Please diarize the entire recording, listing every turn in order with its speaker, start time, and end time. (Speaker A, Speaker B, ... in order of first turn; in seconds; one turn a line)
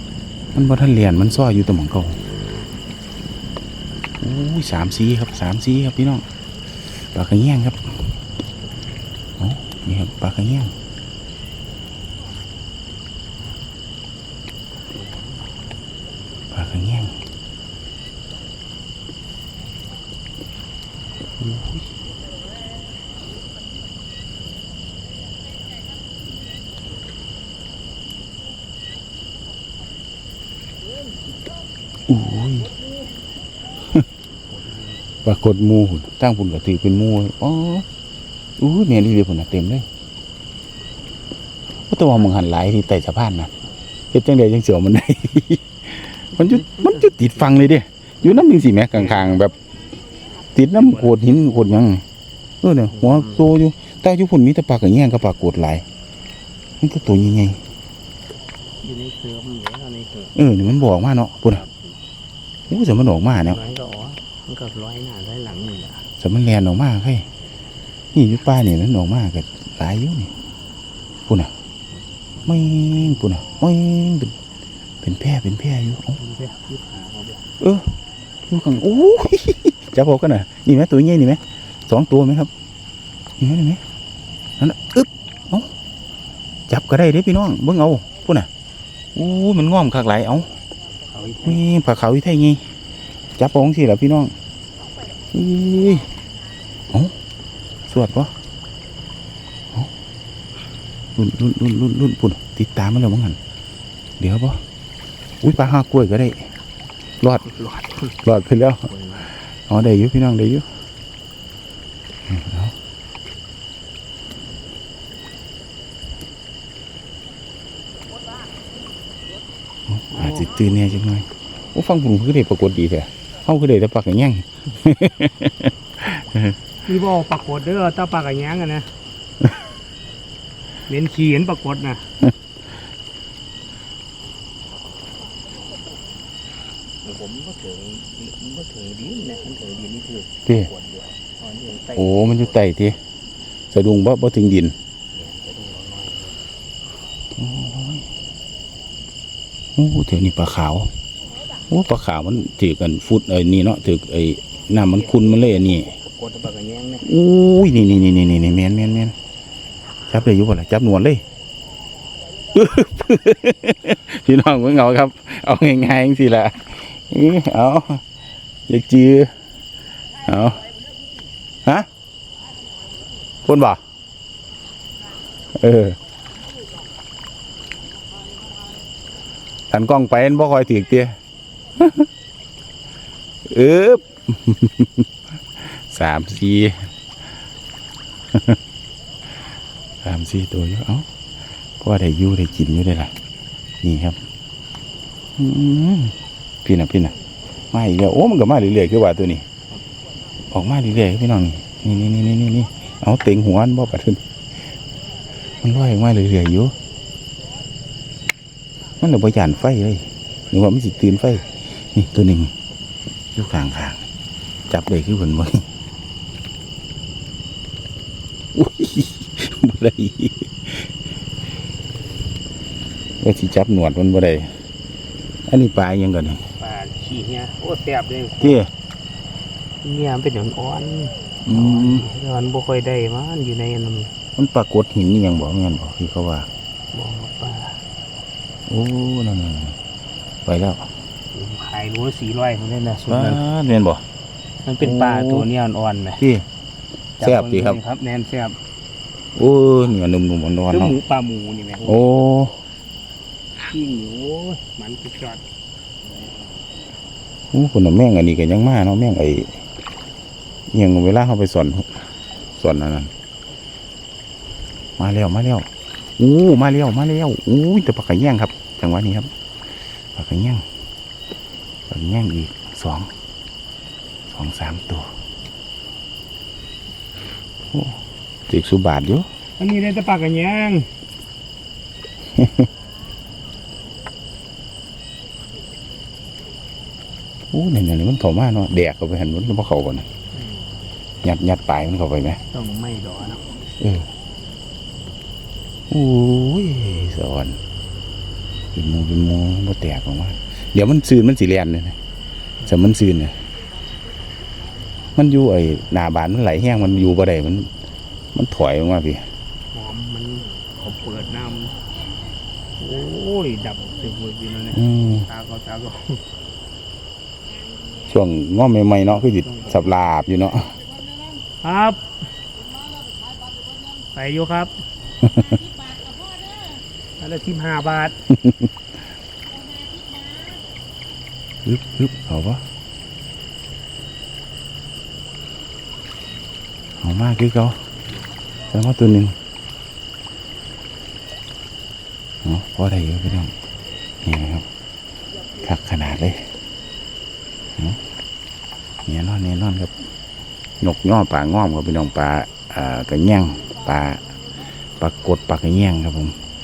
Speaker A: 0.5-2.2
Speaker A: 4.2-8.2
Speaker A: 9.4-10.7
Speaker B: 14.9-15.5
Speaker A: 16.5-17.2
Speaker A: 21.4-21.8
Speaker A: 32.1-32.7
Speaker B: 34.5-35.1
Speaker A: 35.2-37.9
Speaker A: 38.6-39.9
Speaker A: 41.9-43.5
Speaker A: 44.1-49.5
Speaker B: 46.3-47.6
Speaker B: 48.9-49.4
Speaker A: 50.5-52.0
Speaker B: 50.8-51.2
Speaker A: 52.6-55.8
Speaker B: 52.9-53.5
Speaker A: 56.8-57.6
Speaker B: 58.8-60.4
Speaker A: 60.3-61.6
Speaker B: 61.5-61.9
Speaker A: 62.7-63.6
Speaker B: 63.4-66.1
Speaker A: 66.2-67.3
Speaker A: 68.1-70.3
Speaker A: 71.2-71.5
Speaker A: 72.4-74.4
Speaker A: 75.0-76.2
Speaker B: 76.2-77.5
Speaker A: 77.6-78.0
Speaker A: 78.5-82.5
Speaker A: 83.4-83.8
Speaker A: 84.6-85.7
Speaker A: 86.7-88.5
Speaker A: 89.1-90.5
Speaker B: 91.1-91.6
Speaker A: 91.4-92.6
Speaker A: 93.4-94.3
Speaker A: 95.3-96.1
Speaker A: 97.9-98.3
Speaker A: 101.2-103.4
Speaker A: 104.2-104.6
Speaker A: 105.4-106.5
Speaker A: 107.2-107.5
Speaker B: 107.4-108.2
Speaker A: 108.1-110.7
Speaker B: 108.9-109.3
Speaker A: 112.3-112.7
Speaker A: 119.9-126.5
Speaker B: 120.1-120.5
Speaker B: 126.8-128.9
Speaker B: 130.9-132.1
Speaker B: 137.0-142.6
Speaker A: 141.9-143.0
Speaker A: 143.7-144.8
Speaker B: 145.1-146.4
Speaker A: 147.3-148.1
Speaker A: 149.8-150.9
Speaker A: 151.7-155.9
Speaker B: 154.9-157.1
Speaker A: 157.0-159.1
Speaker A: 160.1-161.2
Speaker A: 162.5-168.0
Speaker A: 168.7-169.3
Speaker A: 170.2-170.7
Speaker A: 173.4-173.8
Speaker A: 175.5-176.0
Speaker A: 179.7-181.1
Speaker A: 181.8-182.1
Speaker A: 183.4-186.9
Speaker A: 190.0-191.1
Speaker A: 191.8-193.1
Speaker A: 193.8-194.2
Speaker A: 195.4-197.1
Speaker A: 197.7-199.4
Speaker A: 200.5-204.2
Speaker A: 205.4-206.7
Speaker A: 209.0-212.5
Speaker A: 213.3-214.0
Speaker A: 214.7-215.6
Speaker A: 218.5-220.9
Speaker A: 223.2-224.5
Speaker A: 225.5-226.4
Speaker B: 226.6-228.6
Speaker A: 228.4-228.7
Speaker B: 229.8-234.1
Speaker A: 231.4-232.0
Speaker A: 234.4-236.5
Speaker B: 236.9-237.8
Speaker A: 238.7-239.8
Speaker A: 240.4-240.9
Speaker B: 241.3-243.4
Speaker A: 243.1-244.0
Speaker B: 244.6-246.2
Speaker A: 244.8-245.5
Speaker A: 246.2-246.4
Speaker B: 247.2-248.6
Speaker A: 247.2-247.8
Speaker A: 249.3-251.0
Speaker B: 250.7-252.0
Speaker A: 251.8-252.6
Speaker B: 253.7-255.4
Speaker A: 257.5-259.6
Speaker A: 260.7-262.0
Speaker A: 262.5-263.1
Speaker A: 265.0-269.3
Speaker A: 270.0-270.6
Speaker A: 271.9-273.1
Speaker A: 274.3-275.1
Speaker A: 277.7-279.3
Speaker B: 279.6-280.9
Speaker A: 282.4-282.7
Speaker A: 287.5-290.1
Speaker B: 290.3-290.7
Speaker A: 291.2-292.4
Speaker B: 292.5-293.4
Speaker A: 293.8-294.1
Speaker A: 295.9-297.6
Speaker A: 298.7-302.0
Speaker A: 302.6-303.4
Speaker A: 305.1-307.7
Speaker A: 308.3-309.2
Speaker B: 309.7-311.8
Speaker B: 312.8-316.2
Speaker A: 314.7-315.2
Speaker A: 318.0-320.8
Speaker B: 319.1-319.9
Speaker B: 321.6-322.1
Speaker B: 323.9-324.8
Speaker A: 325.2-325.6
Speaker B: 327.2-328.1
Speaker A: 328.3-328.7
Speaker A: 331.6-332.6
Speaker A: 337.0-337.8
Speaker A: 338.7-339.4
Speaker A: 342.4-343.5
Speaker A: 344.2-344.7
Speaker A: 345.6-346.5
Speaker A: 347.8-348.0
Speaker A: 349.1-349.9
Speaker A: 350.8-354.3
Speaker A: 355.0-356.4